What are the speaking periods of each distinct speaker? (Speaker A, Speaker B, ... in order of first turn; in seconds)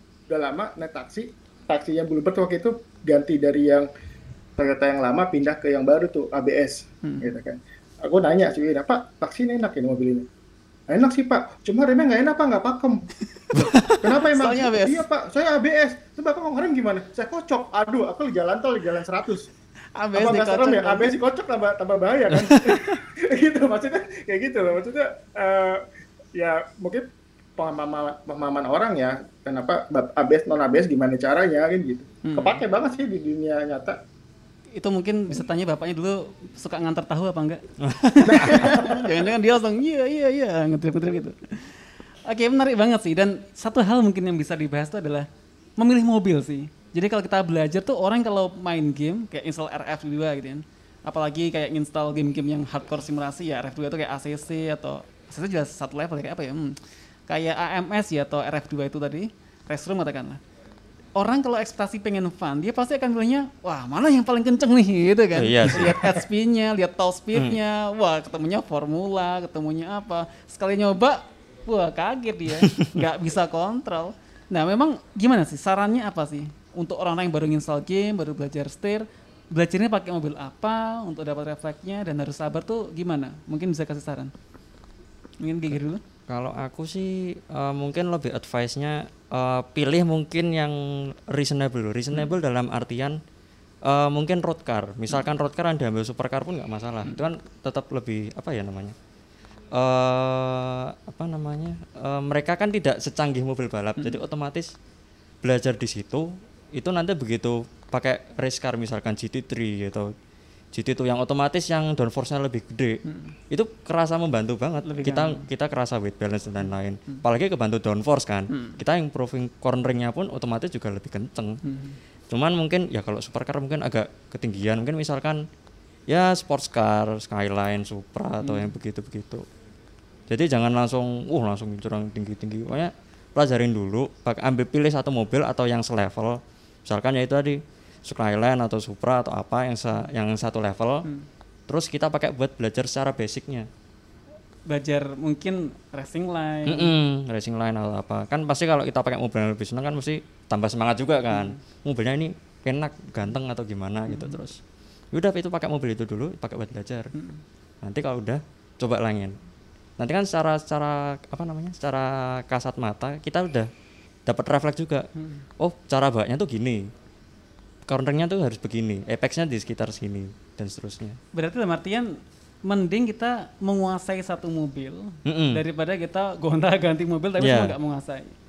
Speaker A: 0.3-3.9, 4.6-10.2, 10.9-13.1, 13.9-19.5, 20.1-25.8, 26.4-27.0, 27.6-34.0, 38.2-39.1
Speaker B: 7.0-7.3, 14.2-15.0, 19.9-21.2, 32.2-32.6, 34.8-45.3, 45.8-56.8, 57.3-60.4, 61.1-84.3, 85.4-86.0, 113.0-113.3, 114.8-115.4, 116.6-117.2, 118.5-118.8, 121.6-122.0, 128.4-128.7, 144.7-146.9, 151.3-151.6, 154.1-154.4, 157.1-157.4, 165.2-165.4, 171.3-178.3
Speaker C: 13.5-14.0, 22.4-23.0, 37.8-38.8, 65.3-66.1, 72.6-73.0, 86.3-93.2, 93.8-98.9, 99.7-104.7, 105.4-110.1, 110.7-113.0, 113.5-121.6, 122.3-125.4, 126.1-129.4, 130.3-141.1, 141.7-143.7, 146.6-154.6, 155.1-157.1, 157.8-159.3, 160.0-163.7, 164.2-165.1, 165.6-166.8, 167.9-171.2, 175.2-175.6, 177.4-177.8